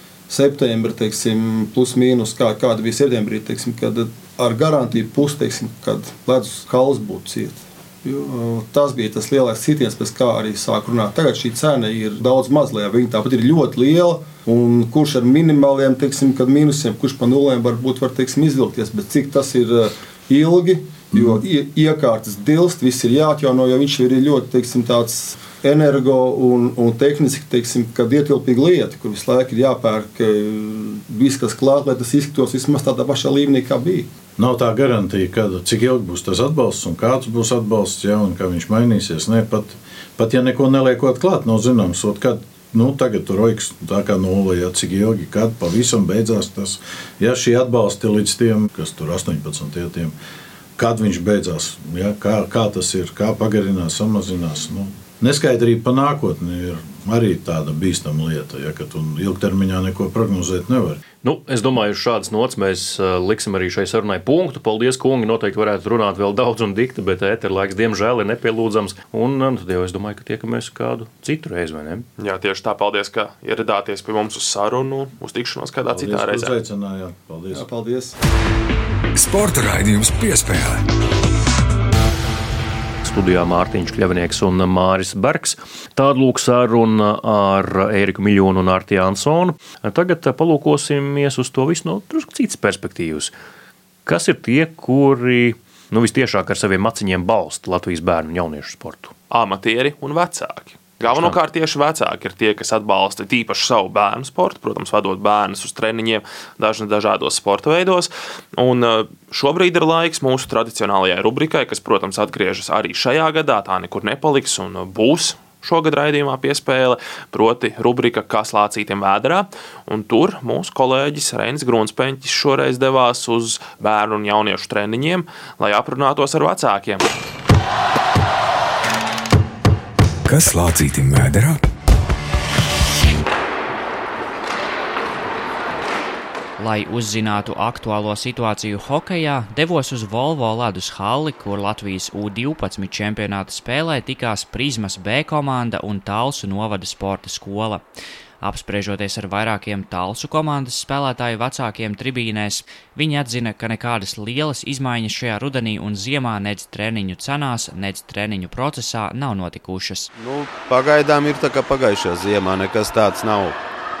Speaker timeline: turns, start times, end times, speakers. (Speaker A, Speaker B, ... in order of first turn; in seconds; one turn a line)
Speaker A: 0.3-34.1
Speaker B: 34.4-50.1
Speaker B: 50.8-61.0
Speaker C: 61.2-72.0
Speaker D: 72.2-76.5
Speaker B: 75.9-77.7
Speaker A: 77.5-78.2
Speaker E: 79.2-80.8
Speaker C: 83.0-93.3
Speaker C: 94.0-99.1
Speaker D: 99.3-127.0
Speaker C: 101.0-101.4
Speaker E: 130.2-131.7
Speaker F: 136.6-147.9
Speaker F: 148.4-160.1
Speaker G: 160.2-163.6